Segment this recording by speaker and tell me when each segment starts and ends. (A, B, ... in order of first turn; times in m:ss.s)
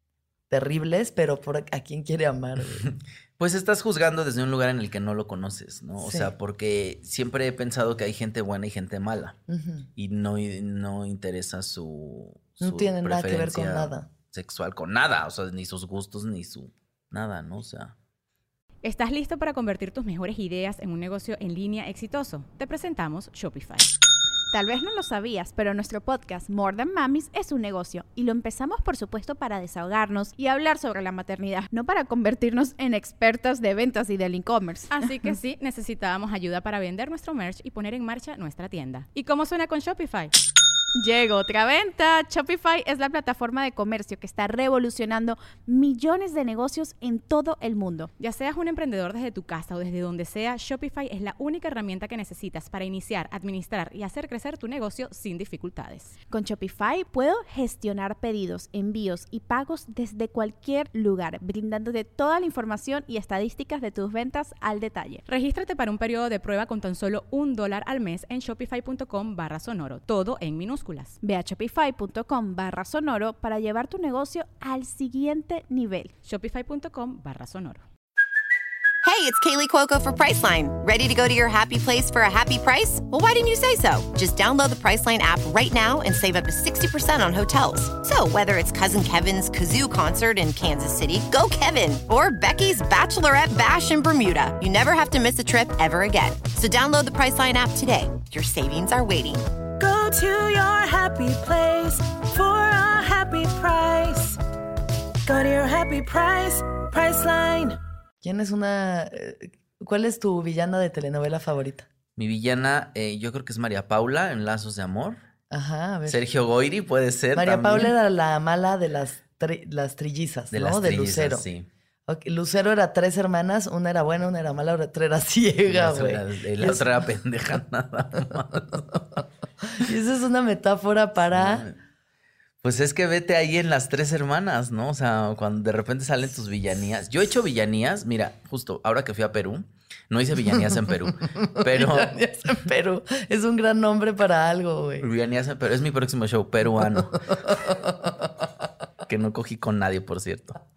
0:00.5-0:02.9 A
0:02.8-0:09.4 B
0:06.0-0:06.3 A
0:09.5-0:09.9 A
0:10.0-0:17.9 B
0:12.6-0:14.1 A
0:18.8-0:23.9 C
0:24.5-0:35.3 D
0:34.9-0:40.3 C
0:41.0-0:48.1 D
0:48.2-0:56.2 C
0:56.3-1:05.2 D
1:05.3-1:11.2 C
1:11.2-1:16.1 D
1:16.2-1:17.8 C
1:19.0-1:39.4 E
1:39.8-1:44.4 F
1:45.2-1:47.8 F
1:48.2-1:51.9 A
1:52.2-1:55.2 B
1:55.5-1:56.2 A
1:56.0-1:57.9 B
1:57.3-2:01.4 A
2:00.5-2:01.7 B
2:02.1-2:06.9 A
2:05.7-2:09.1 B
2:09.7-2:11.7 A
2:11.3-2:11.8 B
2:12.6-2:22.1 B
2:21.4-2:25.1 A
2:25.0-2:27.2 B
2:27.3-2:27.8 A
2:29.0-2:30.6 B